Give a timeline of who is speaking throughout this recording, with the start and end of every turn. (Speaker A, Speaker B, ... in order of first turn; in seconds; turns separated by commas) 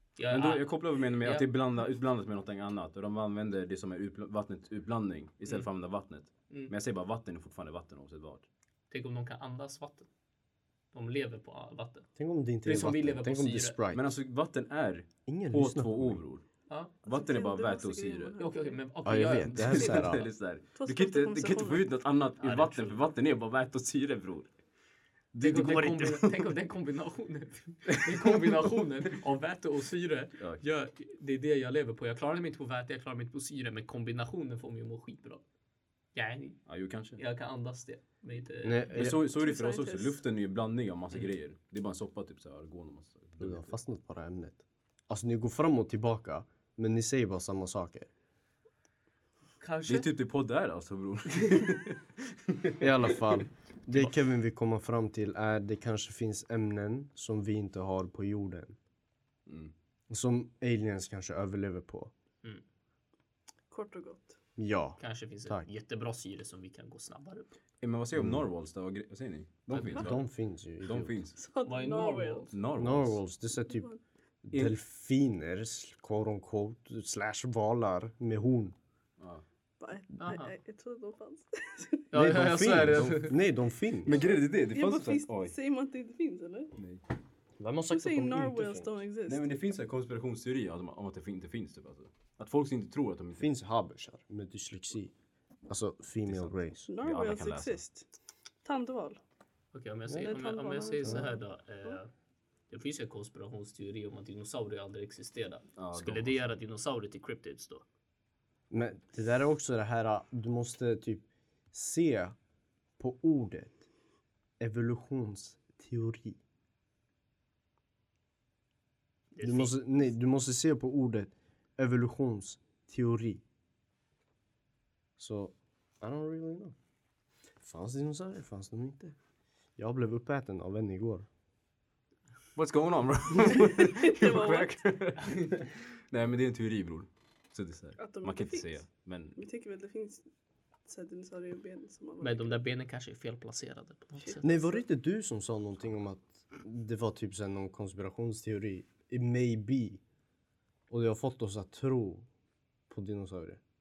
Speaker A: 0.1-1.5, Speaker B: 0.3-8.5, Speaker A: 8.9-10.1, Speaker A: 10.9-12.1, Speaker C: 12.2-14.2, Speaker A: 12.6-13.8, Speaker B: 13.9-16.4, Speaker C: 15.3-16.2, Speaker B: 17.0-18.4, Speaker D: 17.1-18.8, Speaker A: 18.4-20.1, Speaker C: 19.0-20.2, Speaker B: 19.5-24.5, Speaker D: 20.8-21.9, Speaker A: 22.4-23.0, Speaker B: 25.3-26.5, Speaker A: 25.4-35.4, Speaker B: 27.9-28.4, Speaker A: 36.1-36.6, Speaker B: 36.6-37.2, Speaker A: 37.1-39.0, Speaker C: 38.6-39.2, Speaker B: 38.9-43.7, Speaker D: 39.2-40.2, Speaker C: 43.4-48.1, Speaker A: 49.6-50.1, Speaker B: 49.9-52.8, Speaker C: 52.8-58.8, Speaker B: 59.5-59.7, Speaker C: 60.1-62.1, Speaker D: 63.7-64.4, Speaker C: 64.6-65.7, Speaker A: 65.0-67.5, Speaker B: 67.8-70.2, Speaker C: 68.2-68.4, Speaker A: 69.7-70.0, Speaker C: 70.0-71.2, Speaker B: 70.8-71.3, Speaker D: 71.3-72.5, Speaker A: 71.6-72.5, Speaker B: 72.5-73.2, Speaker C: 72.8-73.9, Speaker D: 73.5-74.0, Speaker C: 74.4-78.8, Speaker B: 74.5-74.8, Speaker B: 79.2-79.4, Speaker D: 79.8-82.1, Speaker A: 80.2-80.5, Speaker A: 82.1-83.4, Speaker C: 82.1-84.2, Speaker B: 84.0-85.5, Speaker D: 84.0-86.7, Speaker C: 87.6-89.0, Speaker D: 87.9-89.5, Speaker B: 89.2-93.5, Speaker C: 93.4-95.1, Speaker C: 95.7-96.8, Speaker B: 96.3-97.8, Speaker D: 96.8-98.1, Speaker D: 98.6-99.2, Speaker A: 99.7-102.1, Speaker C: 100.1-100.3, Speaker D: 100.2-102.0, Speaker A: 102.7-107.8, Speaker B: 105.8-106.4, Speaker C: 108.7-112.3, Speaker C: 113.0-113.8, Speaker C: 114.6-116.4, Speaker A: 119.3-119.8, Speaker C: 119.4-123.4, Speaker C: 125.2-126.7, Speaker C: 127.6-129.1, Speaker C: 129.8-131.3, Speaker B: 132.5-139.4, Speaker D: 133.5-134.8, Speaker D: 138.0-138.8, Speaker D: 139.3-140.2, Speaker D: 140.8-142.6, Speaker A: 142.2-144.6, Speaker D: 144.2-144.8, Speaker C: 144.4-150.0, Speaker C: 150.9-152.2, Speaker C: 152.9-153.6